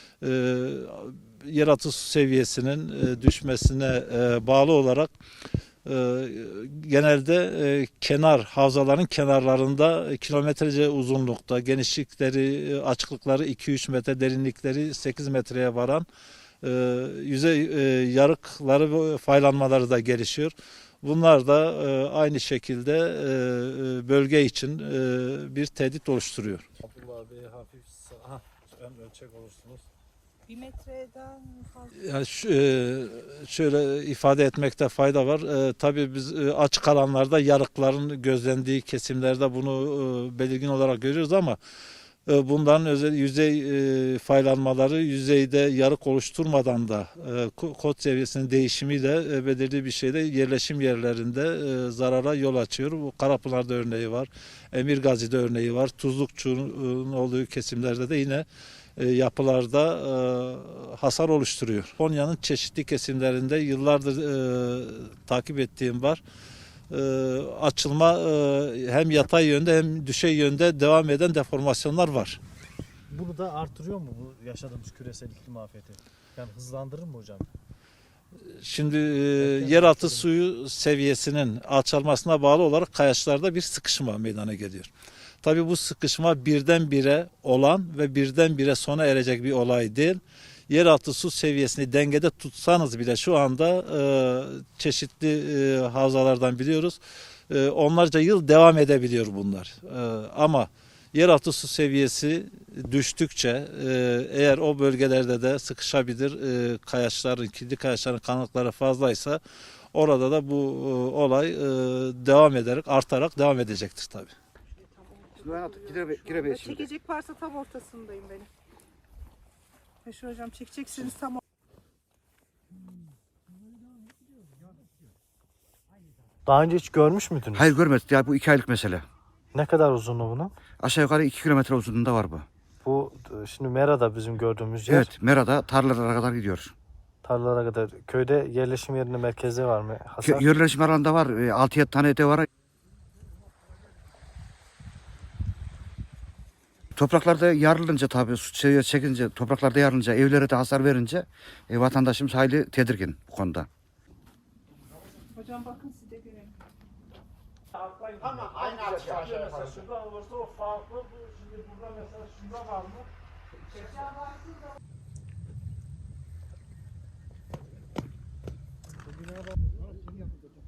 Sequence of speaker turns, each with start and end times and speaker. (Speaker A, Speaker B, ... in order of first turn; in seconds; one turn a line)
Speaker A: 0.2-5.1
Speaker A: 5.9-16.1
Speaker A: 16.6-29.8
Speaker B: 30.5-31.9
Speaker A: 31.9-41.6
Speaker A: 42.3-58.5
Speaker A: 59.0-66.2
Speaker A: 66.9-72.4
Speaker C: 73.1-77.5
Speaker A: 78.5-84.9
Speaker C: 79.4-80.3
Speaker A: 85.4-109.4
Speaker A: 109.9-114.3
Speaker B: 114.7-118.5
Speaker D: 115.4-116.9
Speaker B: 120.0-121.4
Speaker C: 126.5-127.7
Speaker D: 127.5-129.1
Speaker C: 129.5-130.5
Speaker D: 130.8-132.5
Speaker C: 132.8-135.1
Speaker D: 134.9-136.7
Speaker C: 137.2-140.6
Speaker D: 140.2-142.5
Speaker D: 147.0-153.7
Speaker B: 155.3-156.6
Speaker A: 157.8-163.1